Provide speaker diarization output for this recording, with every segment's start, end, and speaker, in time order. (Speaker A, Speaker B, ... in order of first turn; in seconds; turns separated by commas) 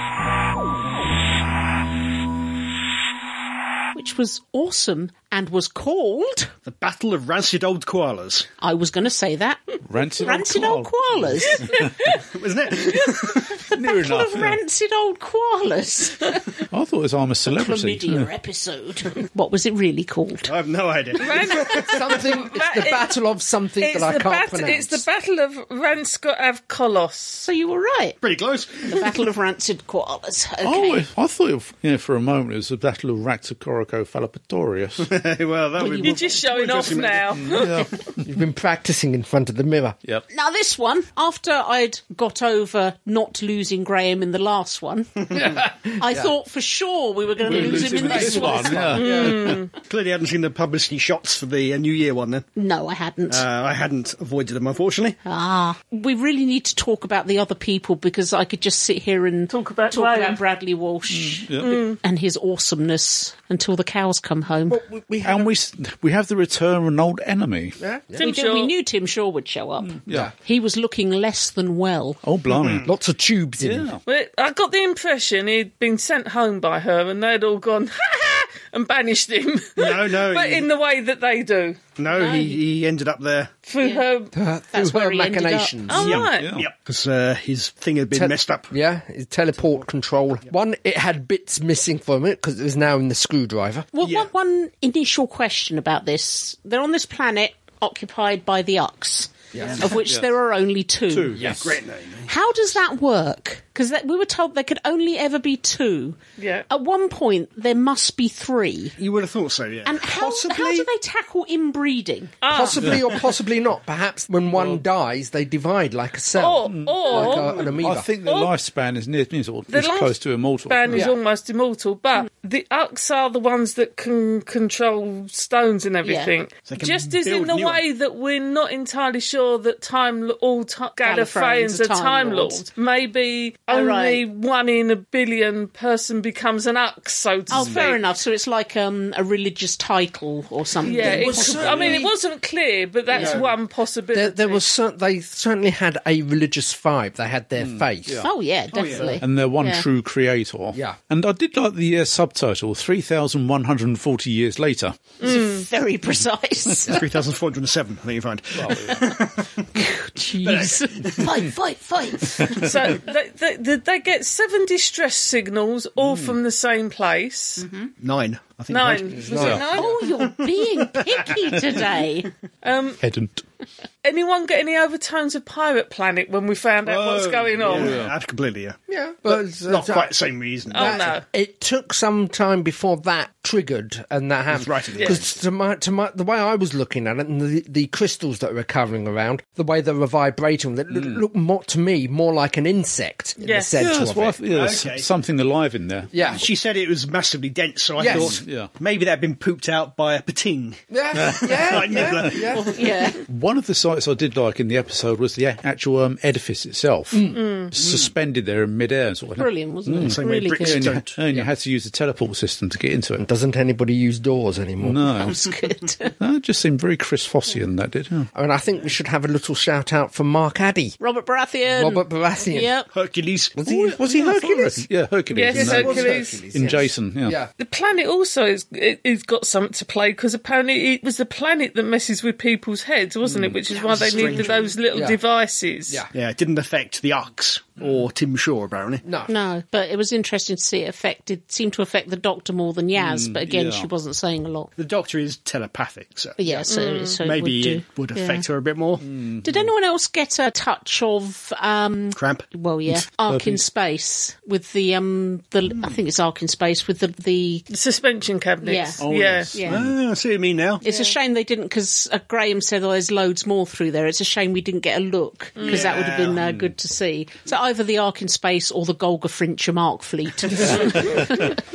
Speaker A: 3.9-6.5, Speaker B: 6.7-8.5, Speaker A: 8.6-11.7, Speaker C: 9.9-11.9, Speaker B: 12.3-13.6, Speaker C: 13.7-14.6, Speaker A: 13.8-16.4, Speaker C: 16.7-18.3, Speaker A: 17.5-20.5, Speaker B: 20.4-21.9, Speaker D: 21.2-23.1, Speaker E: 21.8-25.0, Speaker D: 23.8-27.4, Speaker A: 27.4-28.2, Speaker B: 28.2-29.0, Speaker A: 28.8-31.1, Speaker C: 30.6-35.1, Speaker B: 35.0-37.5, Speaker A: 35.8-36.4, Speaker D: 36.0-37.9, Speaker C: 37.4-38.0, Speaker E: 38.2-40.0, Speaker A: 40.3-49.0, Speaker E: 45.3-46.3, Speaker C: 47.4-49.6, Speaker E: 47.5-49.5, Speaker D: 49.0-49.7, Speaker B: 49.8-52.5, Speaker A: 52.5-53.5, Speaker B: 53.3-55.2, Speaker A: 55.2-64.8, Speaker D: 59.5-60.4, Speaker C: 61.1-61.7, Speaker D: 61.6-62.0, Speaker E: 64.7-65.5, Speaker C: 65.2-67.8, Speaker E: 67.8-68.3, Speaker D: 68.2-68.7, Speaker A: 68.2-72.2, Speaker C: 69.8-70.3, Speaker C: 72.2-72.9, Speaker B: 72.5-72.9, Speaker E: 72.8-73.9, Speaker C: 73.6-74.0, Speaker D: 74.1-81.8, Speaker B: 79.8-80.7, Speaker B: 82.0-83.5, Speaker A: 82.1-82.6, Speaker D: 83.7-84.3, Speaker A: 83.8-84.0, Speaker E: 84.3-86.2, Speaker A: 84.7-85.8, Speaker D: 85.9-86.5, Speaker B: 86.0-88.7, Speaker C: 86.1-86.7, Speaker E: 88.1-93.9, Speaker A: 93.9-101.5, Speaker B: 94.0-94.3, Speaker E: 99.5-99.8, Speaker C: 99.9-100.3, Speaker C: 101.1-101.7, Speaker E: 101.4-101.7, Speaker B: 101.5-102.3, Speaker A: 102.3-109.0, Speaker D: 106.4-106.7, Speaker B: 109.0-110.8, Speaker A: 109.8-112.4, Speaker D: 112.4-113.0, Speaker E: 112.5-118.1, Speaker C: 114.5-114.8, Speaker D: 116.3-117.7, Speaker C: 116.6-121.1, Speaker D: 118.2-118.5, Speaker D: 119.7-138.0, Speaker A: 126.0-126.3, Speaker B: 126.7-127.8, Speaker A: 131.0-132.7, Speaker A: 133.7-134.2, Speaker A: 137.5-141.5, Speaker C: 137.5-137.9, Speaker D: 140.8-144.6, Speaker E: 141.0-142.1, Speaker C: 141.4-142.0, Speaker B: 143.1-143.5, Speaker E: 144.1-148.2, Speaker C: 147.6-148.3, Speaker A: 148.2-149.8, Speaker B: 148.7-149.2, Speaker C: 149.2-154.9, Speaker D: 155.2-155.6, Speaker A: 155.2-157.0, Speaker B: 156.9-159.7, Speaker C: 158.6-159.0, Speaker A: 159.8-162.7, Speaker B: 160.4-161.3, Speaker D: 162.6-167.6, Speaker C: 166.0-166.3, Speaker A: 167.6-167.9, Speaker B: 168.0-171.8, Speaker D: 168.7-169.8, Speaker E: 169.1-169.9, Speaker C: 169.3-169.6, Speaker A: 169.6-172.3, Speaker D: 172.6-173.0, Speaker C: 173.0-173.4, Speaker D: 174.0-177.9, Speaker B: 176.8-181.1, Speaker C: 177.7-178.1, Speaker E: 178.9-180.1, Speaker D: 180.7-181.2, Speaker E: 180.7-194.4, Speaker B: 184.5-185.3, Speaker C: 190.9-191.2, Speaker D: 193.4-193.8, Speaker C: 193.8-196.1, Speaker B: 194.5-195.1, Speaker E: 196.1-196.4, Speaker B: 196.2-202.6, Speaker E: 198.0-198.4, Speaker C: 198.0-198.7, Speaker E: 200.9-202.6, Speaker C: 201.2-201.5, Speaker A: 202.5-203.2, Speaker C: 203.3-213.2, Speaker E: 207.1-207.4, Speaker D: 207.4-207.7, Speaker B: 207.8-208.1, Speaker A: 209.4-210.8, Speaker B: 210.0-211.2, Speaker E: 213.2-215.0, Speaker C: 214.8-215.4, Speaker A: 215.2-216.1, Speaker C: 216.2-218.3, Speaker E: 218.3-221.0, Speaker A: 221.0-222.9, Speaker E: 221.7-222.7, Speaker B: 222.9-223.6, Speaker E: 223.6-224.9, Speaker C: 223.6-227.4, Speaker D: 225.3-226.4, Speaker E: 225.5-227.5, Speaker D: 227.6-236.0, Speaker C: 233.3-233.5, Speaker A: 233.7-234.7, Speaker B: 233.8-234.7, Speaker E: 234.9-235.2, Speaker B: 236.1-239.0, Speaker E: 239.0-239.3, Speaker A: 239.3-244.7, Speaker C: 242.9-243.9, Speaker B: 244.8-246.7, Speaker A: 246.4-248.4, Speaker D: 246.7-247.2, Speaker B: 247.2-249.1, Speaker C: 249.0-249.7, Speaker A: 249.4-257.6, Speaker B: 252.2-252.5, Speaker C: 253.3-253.6, Speaker D: 257.7-259.5, Speaker A: 258.6-259.8, Speaker C: 259.0-259.9, Speaker B: 259.6-260.8, Speaker D: 260.8-261.1, Speaker A: 260.8-271.5, Speaker D: 265.6-265.9, Speaker B: 265.6-266.4, Speaker C: 266.4-266.7, Speaker E: 270.6-271.0